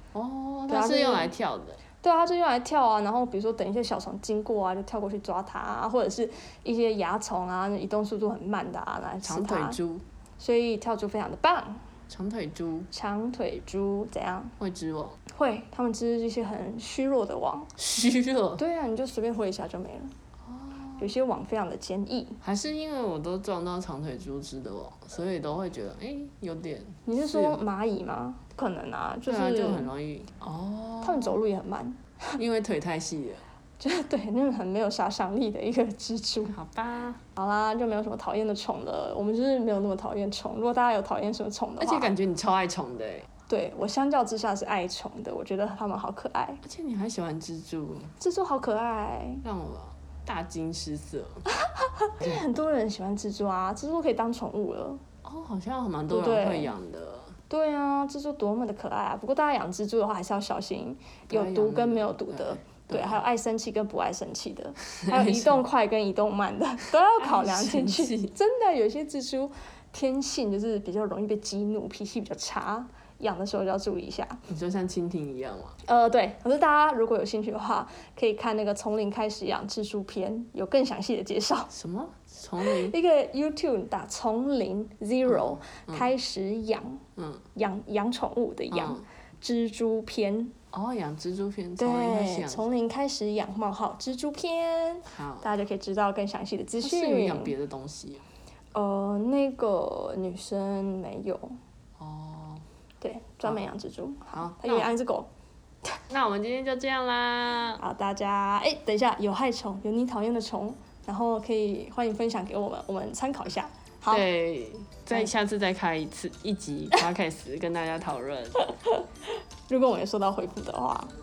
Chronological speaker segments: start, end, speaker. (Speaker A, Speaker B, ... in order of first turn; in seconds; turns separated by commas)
Speaker A: 0.1-1.8, Speaker B: 0.7-1.3, Speaker B: 2.0-9.8, Speaker A: 9.2-10.0, Speaker B: 10.4-11.8, Speaker A: 12.1-12.9, Speaker B: 12.9-14.6, Speaker A: 14.6-15.2, Speaker B: 15.3-17.7, Speaker A: 17.8-18.6, Speaker B: 18.6-20.1, Speaker A: 20.4-21.1, Speaker B: 21.0-22.4, Speaker A: 22.4-27.6, Speaker B: 27.1-29.9, Speaker A: 29.3-31.4, Speaker B: 31.0-32.4, Speaker A: 32.4-33.4, Speaker B: 33.8-36.6, Speaker A: 36.5-37.2, Speaker B: 37.4-42.1, Speaker A: 41.8-43.3, Speaker B: 43.5-46.6, Speaker A: 46.6-48.1, Speaker B: 48.2-49.4, Speaker A: 49.4-51.4, Speaker B: 51.5-55.0, Speaker A: 55.2-57.3, Speaker B: 56.1-56.7, Speaker B: 57.5-74.4, Speaker A: 61.3-63.2, Speaker A: 65.0-65.6, Speaker A: 67.2-68.3, Speaker A: 74.5-75.8, Speaker B: 75.8-81.7, Speaker A: 81.7-83.0, Speaker B: 82.6-87.0, Speaker A: 85.3-86.1, Speaker A: 87.2-87.5, Speaker B: 87.5-90.5, Speaker A: 88.7-89.0, Speaker A: 90.7-92.7, Speaker B: 91.8-97.5, Speaker A: 95.1-95.5, Speaker A: 96.8-98.2, Speaker B: 98.7-101.6, Speaker A: 102.0-102.7, Speaker B: 103.0-105.3, Speaker A: 103.5-103.7, Speaker A: 104.3-104.9, Speaker A: 106.1-107.8, Speaker B: 107.8-114.2, Speaker A: 114.1-118.6, Speaker B: 118.6-121.1